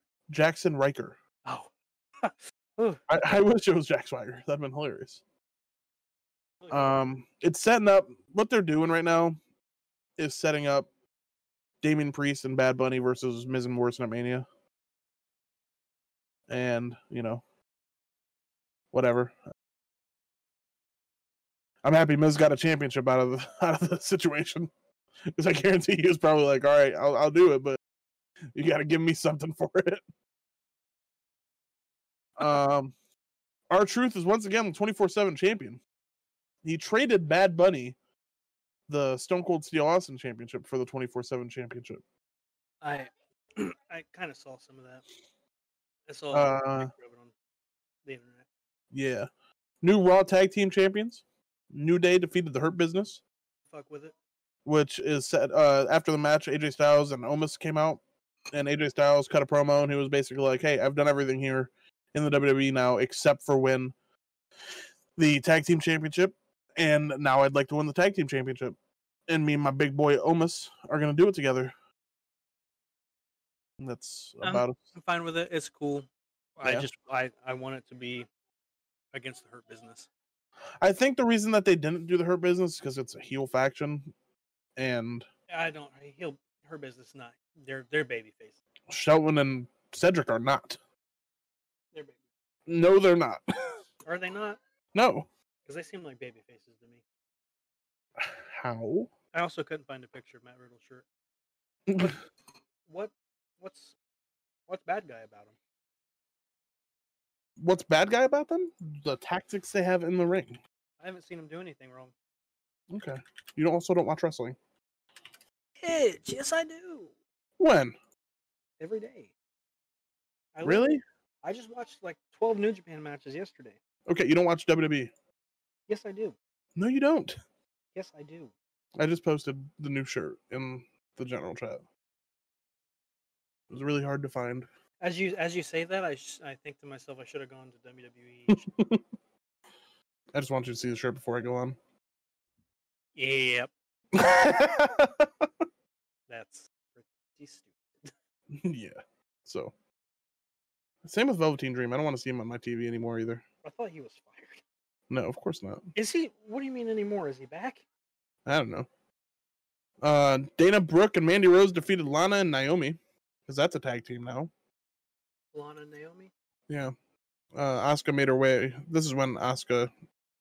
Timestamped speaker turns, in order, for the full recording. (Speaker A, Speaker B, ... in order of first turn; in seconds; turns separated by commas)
Speaker A: 0.3-1.2, Speaker B: 2.2-3.0, Speaker A: 3.1-5.2, Speaker B: 6.6-7.0, Speaker A: 6.7-9.4, Speaker A: 10.2-10.9, Speaker A: 11.8-14.5, Speaker A: 16.5-17.4, Speaker A: 18.9-19.4, Speaker A: 21.8-24.7, Speaker A: 25.3-27.8, Speaker A: 28.5-30.0, Speaker A: 32.4-32.9, Speaker A: 33.7-35.8, Speaker A: 36.6-38.0, Speaker A: 38.9-42.0, Speaker B: 42.8-45.0, Speaker B: 46.1-47.3, Speaker A: 46.3-46.9, Speaker B: 48.0-48.5, Speaker A: 48.9-49.3, Speaker A: 49.8-53.2, Speaker B: 53.7-54.1, Speaker A: 54.6-58.0, Speaker A: 58.5-63.9, Speaker A: 65.2-68.8, Speaker A: 69.3-71.7, Speaker A: 73.8-74.8, Speaker B: 74.4-78.3, Speaker B: 79.1-80.1, Speaker A: 80.8-84.1, Speaker A: 84.8-85.3, Speaker B: 85.5-88.6, Speaker A: 88.9-90.8, Speaker A: 92.7-93.8, Speaker B: 94.0-94.6, Speaker A: 94.9-95.3, Speaker B: 95.7-97.0, Speaker A: 98.2-99.1, Speaker B: 99.3-101.0, Speaker A: 101.9-102.2, Speaker B: 102.9-104.0, Speaker B: 104.7-105.5, Speaker A: 107.6-110.6, Speaker B: 111.0-112.1, Speaker A: 112.9-114.6, Speaker B: 115.8-117.1, Speaker A: 117.6-118.0, Speaker B: 118.8-119.3, Speaker B: 120.5-123.8, Speaker A: 120.6-121.0, Speaker A: 124.1-125.1, Speaker B: 125.9-126.4, Speaker A: 126.8-127.4, Speaker B: 128.0-128.5, Speaker A: 129.0-131.8, Speaker A: 133.7-134.7, Speaker B: 135.0-138.6, Speaker A: 138.5-139.0, Speaker A: 140.3-141.8, Speaker B: 143.2-143.7, Speaker A: 144.1-145.3, Speaker B: 146.3-148.1, Speaker A: 148.5-149.7, Speaker A: 151.0-153.4, Speaker B: 153.6-154.6, Speaker A: 155.1-155.9, Speaker B: 155.9-157.8, Speaker A: 158.4-158.9, Speaker A: 160.0-164.5, Speaker B: 165.5-166.3, Speaker A: 166.7-166.9, Speaker A: 167.6-169.9